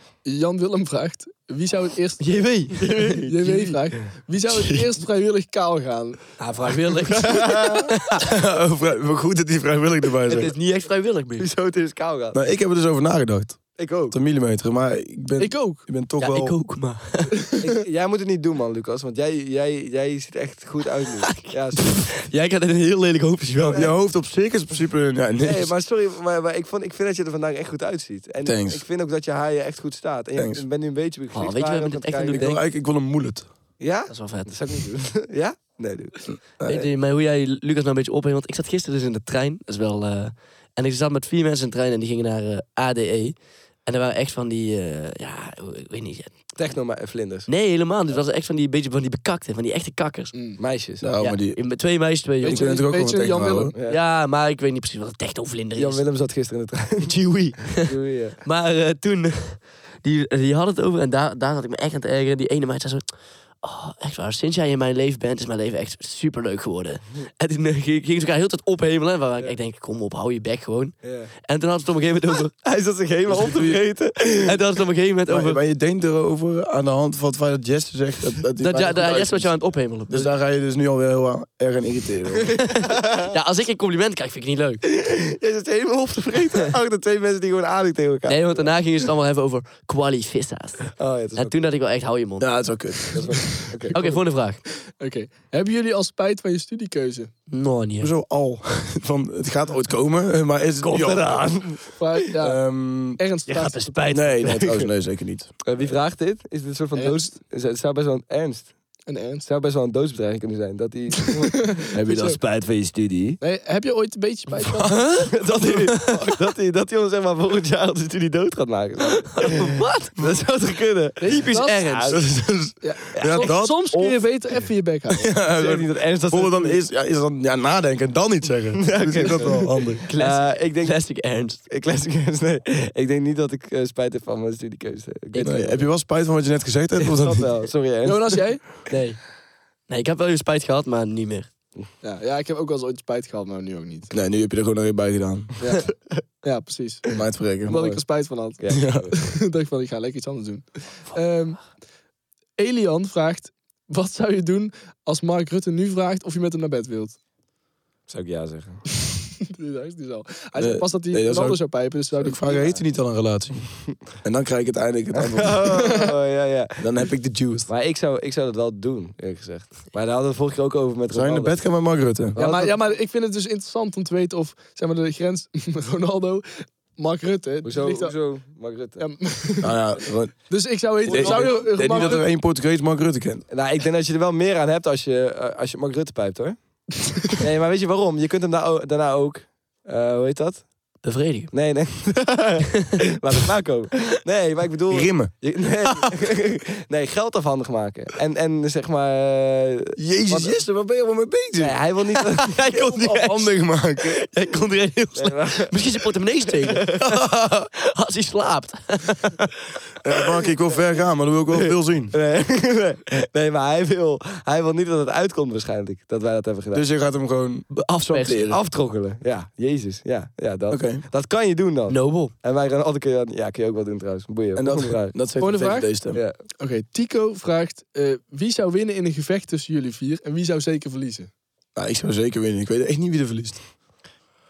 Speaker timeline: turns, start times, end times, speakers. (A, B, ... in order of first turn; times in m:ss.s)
0:00.2-0:02.3 A
0:02.2-0:03.7 B
0:02.8-0:03.4 C
0:03.2-0:06.2 A
0:06.4-0:08.3 B
0:07.2-0:07.8 C
0:08.1-0:10.5 D
0:10.3-0:11.5 B
0:11.4-0:12.4 C
0:12.3-0:16.6 D
0:13.8-0:14.2 C
0:15.4-0:15.8 A
0:16.2-0:17.4 B
0:17.4-0:17.7 A
0:17.6-0:22.0 C
0:21.2-0:23.9 B
0:23.6-0:23.9 C
0:23.7-0:25.7 D
0:25.4-0:32.5 C
0:28.4-0:28.8 D
0:30.4-0:30.6 D
0:31.3-0:32.6 B
0:32.3-0:33.5 D
0:33.8-0:36.8 C
0:34.1-0:34.7 B
0:36.3-0:36.8 D
0:36.7-0:46.3 B
0:46.6-0:47.5 C
0:47.5-0:50.3 B
0:50.3-0:50.6 A
0:50.6-0:51.1 C
0:51.0-0:51.6 D
0:51.2-0:52.7 B
0:52.4-0:53.7 A
0:52.4-0:53.7 D
0:53.7-0:54.0 C
0:53.8-0:56.0 B
0:55.8-0:58.4 C
0:57.0-0:57.9 B
0:58.4-1:12.5 B
1:11.0-1:11.3 C
1:12.6-1:14.6 C
1:13.3-1:13.8 D
1:14.4-1:15.6 B
1:15.3-1:22.6 D
1:18.6-1:20.3 B
1:22.5-1:23.3 C
1:22.6-1:24.8 B
1:24.9-1:28.7 C
1:28.3-1:32.7 B
1:31.0-1:31.6 C
1:32.4-1:33.5 D
1:33.1-1:34.2 C
1:33.9-1:34.6 B
1:34.9-1:37.3 A
1:37.5-1:38.1 B
1:38.0-1:41.6 D
1:40.8-1:41.3 B
1:40.9-1:42.0 C
1:42.0-1:44.0 A
1:42.4-1:43.2 D
1:43.5-1:44.9 B
1:44.1-1:45.6 D
1:45.6-1:48.8 C
1:47.0-1:47.3 A
1:49.1-1:49.5 A
1:49.5-1:53.4 C
1:51.5-1:52.4 A
1:52.0-1:53.3 B
1:53.4-1:55.0 A
1:54.8-1:56.3 B
1:55.2-2:02.2 C
1:59.2-2:00.2 B
2:01.2-2:02.1 A
2:01.3-2:02.2 B
2:02.0-2:04.4 D
2:02.8-2:05.3 A
2:03.2-2:03.6 C
2:05.1-2:10.0 D
2:05.6-2:06.8 C
2:08.8-2:11.0 C
2:10.0-2:11.6 B
2:11.7-2:15.9 C
2:15.4-2:17.5 D
2:17.2-2:18.5 C
2:18.0-2:18.6 A
2:18.9-2:19.2 B
2:19.9-2:21.5 B
2:22.0-2:24.1 A
2:24.1-2:25.6 D
2:25.6-2:25.9 A
2:26.4-2:27.0 A
2:27.1-2:28.0 D
2:27.6-2:31.6 A
2:28.6-2:29.2 C
2:28.7-2:29.1 D
2:32.6-2:37.2 A
2:38.1-2:38.8 C
2:39.5-2:42.8 A
2:40.6-2:45.9 D
2:45.1-2:46.9 C
2:46.8-2:47.7 D
2:47.7-2:51.6 C
2:51.1-2:52.4 D
2:52.3-2:52.8 C
2:52.4-2:58.2 A
2:57.6-2:59.0 C
2:59.0-2:59.7 A
2:59.6-3:03.5 D
3:00.5-3:02.3 A
3:01.1-3:01.5 C
3:03.5-3:06.6 C
3:07.3-3:10.7 C
3:11.0-3:11.5 B
3:11.5-3:20.6 C
3:14.9-3:15.3 D
3:20.0-3:21.8 D
3:21.6-3:22.6 C
3:22.4-3:29.5 B
3:22.8-3:24.2 D
3:25.2-3:25.8 C
3:30.0-3:32.1 D
3:31.6-3:36.8 C
3:36.7-3:38.6 D
3:37.7-3:38.5 B
3:38.5-3:45.2 C
3:40.7-3:41.0 D
3:41.9-3:42.3 B
3:44.6-3:46.2 D
3:45.4-3:46.0 A
3:46.6-3:51.3 A
3:51.8-3:53.6 D